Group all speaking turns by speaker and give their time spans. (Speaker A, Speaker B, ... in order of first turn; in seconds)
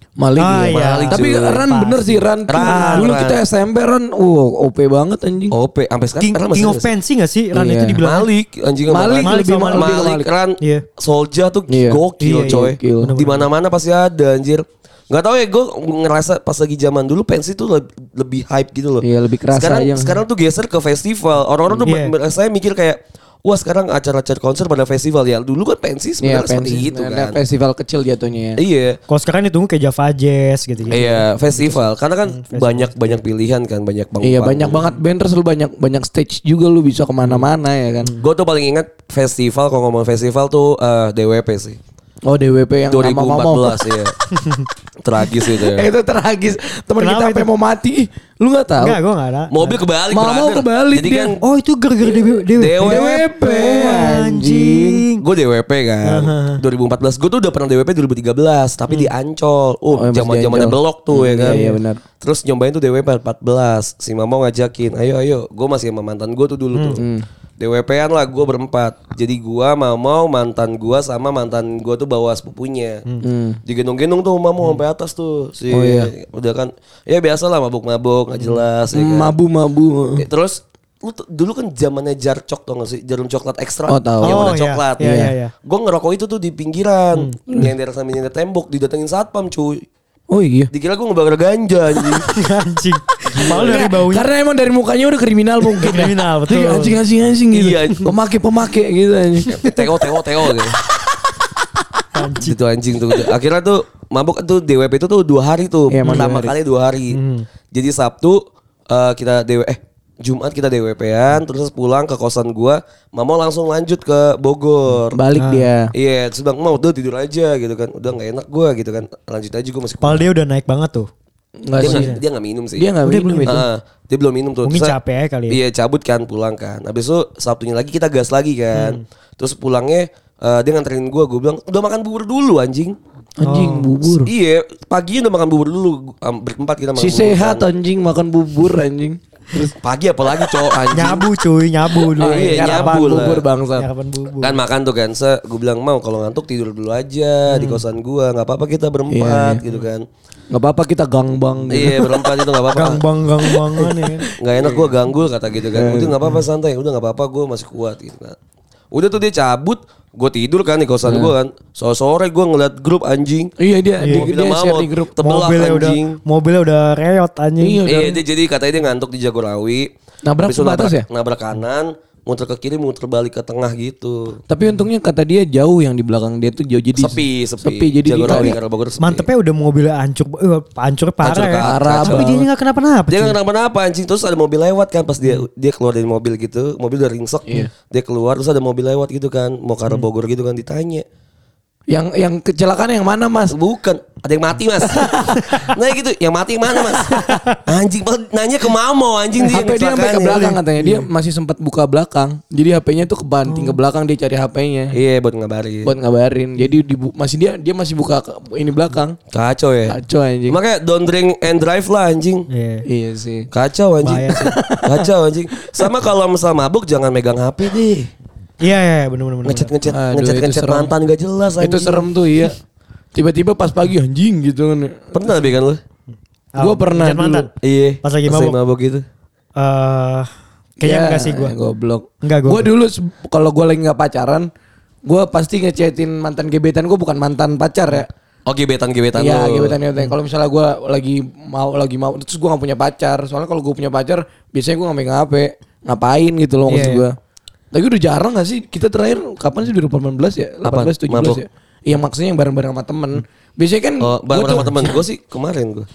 Speaker A: 0.2-5.5, 7.5-8.0, 8.9-10.3, 11.7-13.1, 19.0-20.2, 26.2-28.6, 34.2-38.1, 42.2-43.8, 45.6-49.0, 50.1-51.4, 52.8-55.0, 59.9-62.0, 67.0-67.2, 73.2-73.6, 75.7-76.1, 78.9-80.2, 83.9-85.3, 90.3-90.7, 93.5-99.5, 105.9-106.5, 115.1-115.9, 121.6-122.2, 122.8-123.6, 133.4-134.3, 136.9-139.7, 142.2-143.9, 149.1-149.6, 150.5-152.2, 153.4-154.9, 155.7-156.2, 161.0-161.3, 163.6-165.1, 167.6-168.2, 170.2-171.1, 174.5-178.6, 181.6-182.4, 187.4-187.7, 191.9-193.6, 194.8-195.3, 199.4-204.9, 205.8-209.2, 209.9-210.6, 212.8-213.5, 214.3-215.0, 219.9-220.9, 221.6-222.5, 223.1-225.0, 226.6-227.5, 230.8-234.5, 235.1-238.1, 239.1-247.1, 247.7-255.0
Speaker B: 0.4-3.1, 6.2-8.3, 9.2-10.0, 12.2-13.5, 21.8-22.1, 29.1-33.2, 47.0-47.5, 48.8-49.8, 51.4-55.2, 56.1-56.6, 61.4-61.8, 78.4-78.6, 84.2-85.5, 92.2-94.3, 95.7-97.0, 102.1-102.5, 106.0-106.3, 107.1-107.5, 115.4-115.7, 120.0-121.1, 121.8-122.2, 123.0-123.6, 124.6-125.6, 128.7-129.0, 133.4-133.9, 140.9-144.6, 147.5-147.8, 152.7-154.3, 164.0-164.3, 165.2-167.8, 178.2-183.4, 203.4-203.8, 212.5-212.8, 214.0-214.5, 218.6-219.7, 226.5-227.5, 228.0-228.6, 229.5-230.3, 230.8-231.6, 232.2-232.7, 246.7-247.0
Speaker C: 0.6-1.7, 2.5-3.4, 5.5-6.9, 8.0-27.4, 28.6-29.0, 30.9-34.9, 38.2-41.8, 42.9-44.1, 45.0-45.9, 49.5-51.4, 52.4-53.6, 55.2-61.6, 62.2-67.1, 67.6-73.0, 73.7-79.3, 80.2-89.8, 90.7-92.3, 93.3-93.8, 97.5-98.1, 99.5-100.8, 102.4-107.2, 107.7-108.4, 108.9-115.2, 115.9-120.3, 121.8-122.9, 123.4-125.0, 125.5-132.9, 134.2-137.7, 139.8-141.2, 142.2-143.4, 144.4-150.0, 151.7-153.0, 154.4-158.3, 158.9-163.5, 164.1-166.2, 167.8-169.9, 170.4-174.4, 176.9-179.3, 181.2-182.4, 183.1-191.0, 193.5-201.0, 204.9-205.9, 209.3-210.0, 210.5-212.4, 213.5-218.1, 219.4-222.1, 225.1-225.8, 227.6-229.0, 238.4-239.8, 250.6-251.4, 254.0-255.9